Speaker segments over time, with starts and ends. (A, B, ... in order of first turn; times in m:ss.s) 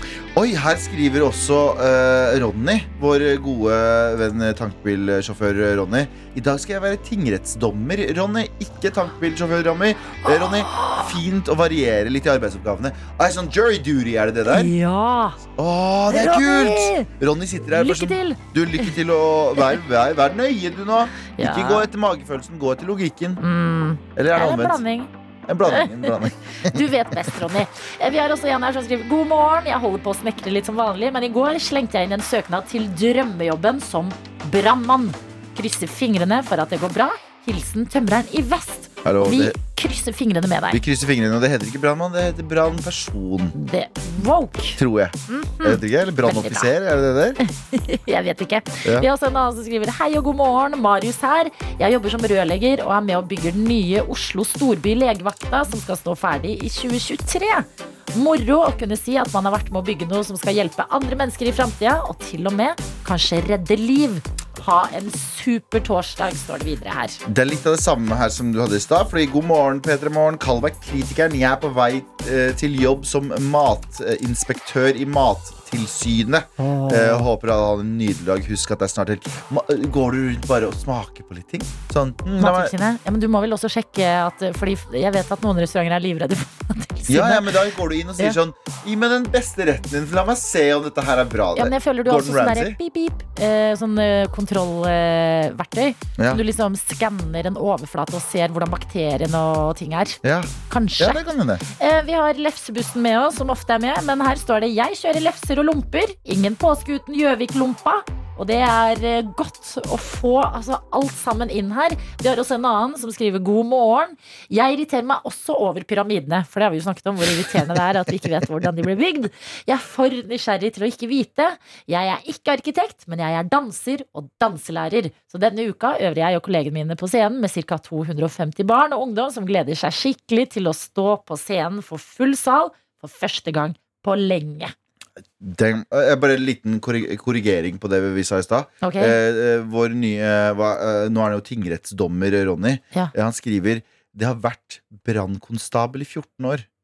0:00.4-0:14.7 A
0:10.2-0:11.2 B
0:14.5-0:15.4 B
0:15.6-0:23.4 A
0:16.1-0:17.1 B
0:17.7-0:18.9 B
0:21.4-0:21.9 B
0:23.4-0:25.1 B
0:24.2-0:24.8 A
0:25.5-0:27.4 A
0:25.7-0:40.8 B
0:39.0-0:39.6 A
0:40.7-0:43.6 A
0:43.6-0:46.7 B
0:44.8-0:47.4 A
0:47.4-1:07.2 B
1:07.3-1:22.7 A
1:16.6-1:17.3 B
1:22.4-1:27.6 B
1:27.1-1:32.8 A
1:31.6-1:41.2 B
1:36.2-1:36.4 A
1:40.2-1:41.6 A
1:41.8-2:14.7 B
2:15.4-2:26.6 A
2:18.8-2:19.2 B